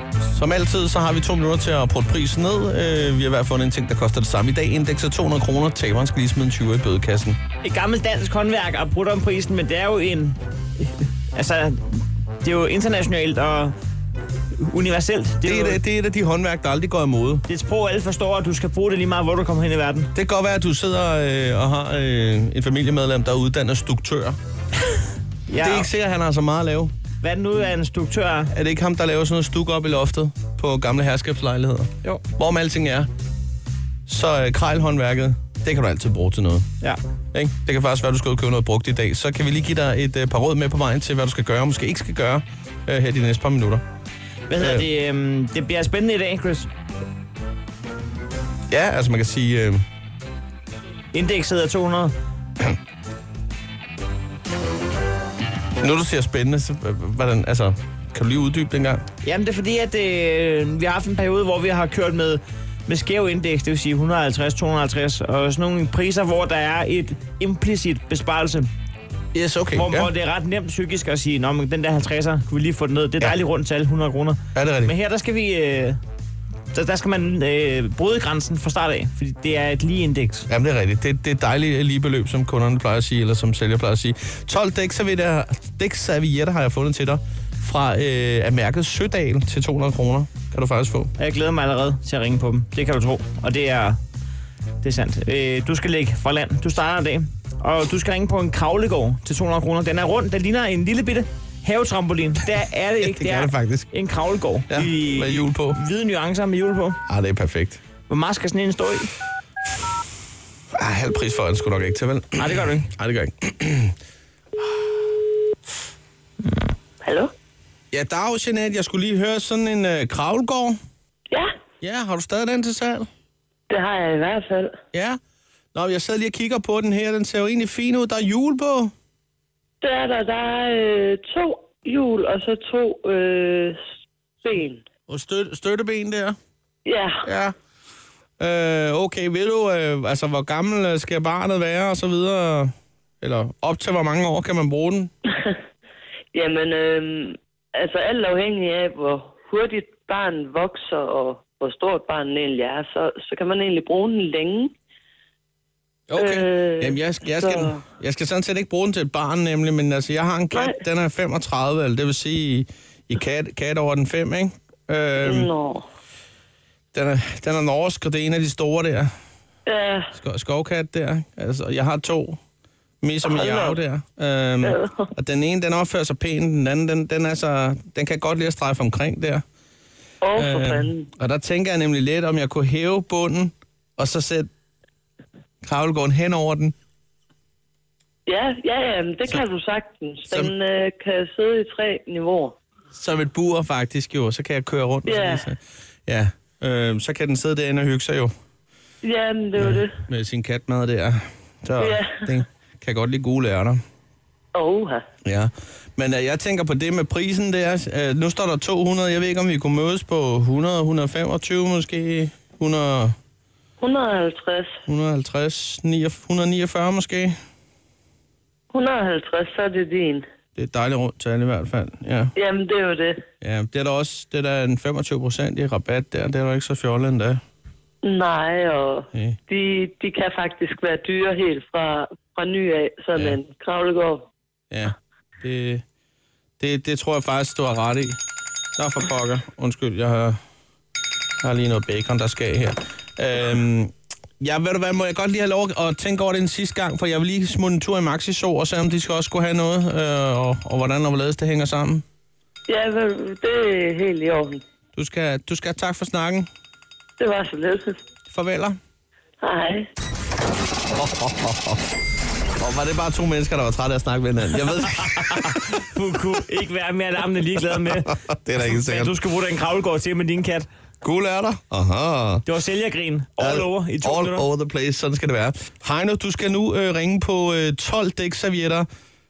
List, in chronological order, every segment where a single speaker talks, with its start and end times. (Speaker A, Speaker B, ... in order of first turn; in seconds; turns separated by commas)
Speaker A: 0.3-7.4, Speaker B: 7.6-13.7, Speaker B: 14.6-15.8, Speaker A: 15.4-17.4, Speaker B: 17.5-20.1, Speaker A: 20.1-24.4, Speaker B: 25.5-25.9, Speaker A: 25.6-26.9, Speaker B: 27.2-28.5, Speaker A: 28.5-33.1, Speaker A: 34.1-36.6, Speaker A: 37.3-43.8, Speaker B: 44.5-46.7, Speaker A: 44.6-44.9, Speaker A: 48.7-49.8, Speaker B: 51.1-52.1, Speaker A: 55.8-59.0, Speaker B: 59.2-68.7, Speaker A: 69.3-70.1, Speaker B: 69.7-76.0, Speaker A: 74.5-74.9, Speaker B: 76.7-80.5, Speaker A: 80.5-91.1, Speaker B: 91.2-94.0, Speaker B: 94.8-107.0, Speaker A: 103.0-103.9, Speaker A: 104.7-105.8, Speaker A: 107.1-107.8, Speaker B: 108.1-109.1, Speaker A: 110.7-114.0, Speaker B: 112.4-112.9, Speaker C: 117.0-117.3, Speaker A: 117.9-120.8, Speaker A: 121.8-123.1, Speaker C: 123.7-124.8, Speaker A: 124.9-125.2, Speaker A: 125.7-128.9, Speaker C: 129.8-133.8, Speaker C: 134.4-134.8, Speaker A: 135.1-136.4, Speaker C: 136.8-137.2, Speaker A: 137.2-137.5, Speaker A: 138.4-145.1, Speaker C: 145.3-145.6, Speaker C: 146.3-154.7, Speaker A: 156.1-165.5, Speaker C: 156.2-157.8, Speaker C: 160.5-160.8, Speaker C: 165.2-165.8, Speaker A: 166.9-169.1, Speaker C: 169.7-170.1, Speaker A: 170.2-172.4, Speaker A: 173.0-179.4, Speaker C: 173.3-173.8, Speaker C: 174.6-175.0, Speaker C: 180.2-181.1, Speaker A: 180.4-184.5, Speaker A: 185.6-186.7, Speaker C: 188.3-192.6, Speaker A: 192.9-198.3, Speaker C: 195.1-195.5, Speaker C: 199.0-199.9, Speaker A: 199.6-203.8, Speaker C: 201.8-202.2, Speaker C: 204.5-205.0, Speaker A: 205.2-213.2, Speaker C: 213.8-214.8, Speaker A: 214.9-217.3, Speaker C: 218.7-220.2, Speaker A: 220.6-222.3, Speaker C: 222.4-223.2, Speaker A: 223.4-227.4, Speaker C: 228.0-234.3, Speaker A: 229.1-229.4, Speaker A: 234.7-235.8, Speaker A: 236.6-238.2, Speaker A: 238.8-240.4, Speaker A: 241.4-252.0, Speaker C: 252.7-254.6, Speaker A: 255.0-256.5, Speaker C: 257.2-258.0, Speaker A: 258.3-258.8, Speaker C: 259.4-259.9, Speaker A: 260.9-261.8, Speaker A: 262.6-265.8, Speaker B: 265.0-270.7, Speaker A: 267.7-269.2, Speaker A: 271.0-272.5, Speaker B: 272.4-274.5, Speaker A: 273.4-278.9